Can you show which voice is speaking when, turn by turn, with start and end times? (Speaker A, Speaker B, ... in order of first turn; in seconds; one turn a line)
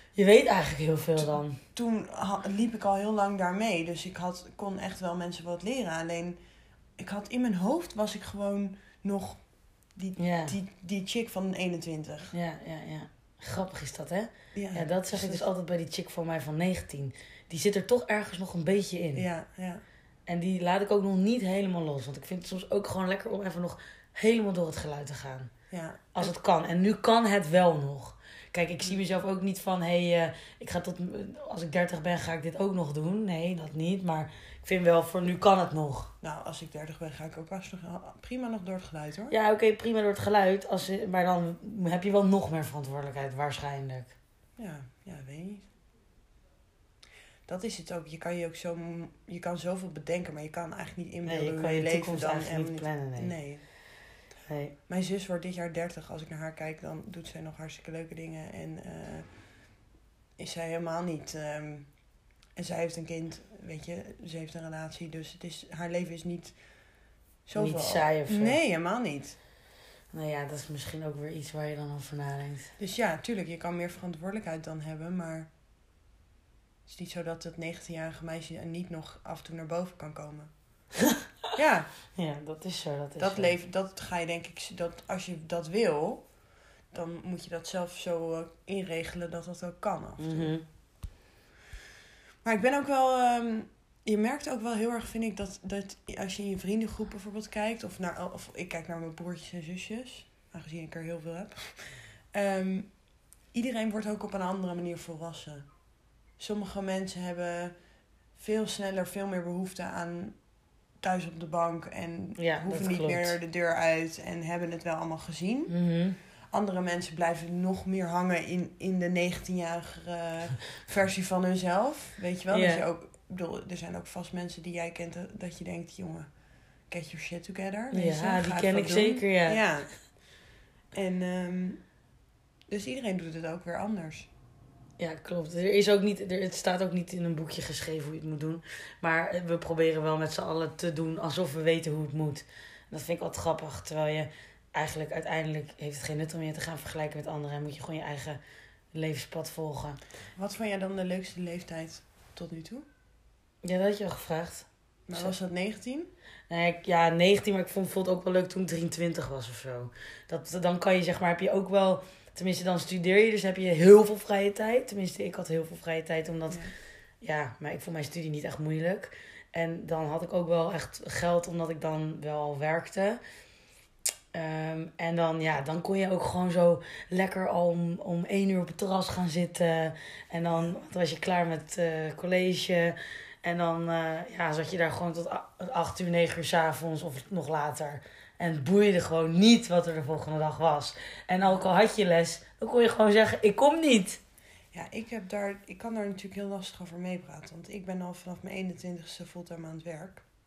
Speaker A: 0.2-1.6
Speaker B: 1.2-6.4
Speaker B: 7.0-9.4
Speaker B: 9.9-12.3
Speaker A: 10.2-10.6
Speaker A: 12.3-19.3
Speaker B: 14.5-15.4
Speaker B: 19.1-19.8
Speaker A: 20.3-25.5
Speaker B: 25.7-26.3
Speaker A: 26.1-36.1
Speaker B: 36.2-39.4
Speaker A: 39.3-44.1
Speaker B: 44.6-45.6
Speaker B: 47.5-53.6
Speaker A: 51.2-53.4
Speaker A: 54.5-54.7
Speaker B: 54.9-59.3
Speaker B: 60.4-61.9
Speaker B: 62.6-66.6
Speaker B: 67.5-69.4
Speaker A: 67.6-68.6
Speaker A: 70.1-72.7
Speaker B: 72.8-75.5
Speaker B: 76.9-80.5
Speaker B: 81.5-81.9
Speaker A: 82.1-83.5
Speaker B: 83.2-86.3
Speaker B: 86.9-90.5
Speaker A: 90.2-90.6
Speaker B: 92.4-102.9
Speaker B: 103.5-105.7
Speaker B: 106.4-107.7
Speaker B: 108.4-110.4
Speaker B: 111.0-115.7
Speaker A: 112.4-113.4
Speaker A: 115.7-116.2
Speaker B: 116.5-126.3
Speaker A: 122.5-122.8
Speaker B: 126.9-129.9
Speaker A: 127.9-129.6
Speaker B: 130.9-131.8
Speaker B: 132.7-134.3
Speaker A: 135.0-148.4
Speaker A: 148.9-150.0
Speaker B: 150.4-152.9
Speaker A: 153.6-155.3
Speaker B: 155.1-156.1
Speaker A: 156.5-166.6
Speaker A: 167.2-173.2
Speaker A: 174.3-194.2
Speaker B: 194.7-200.2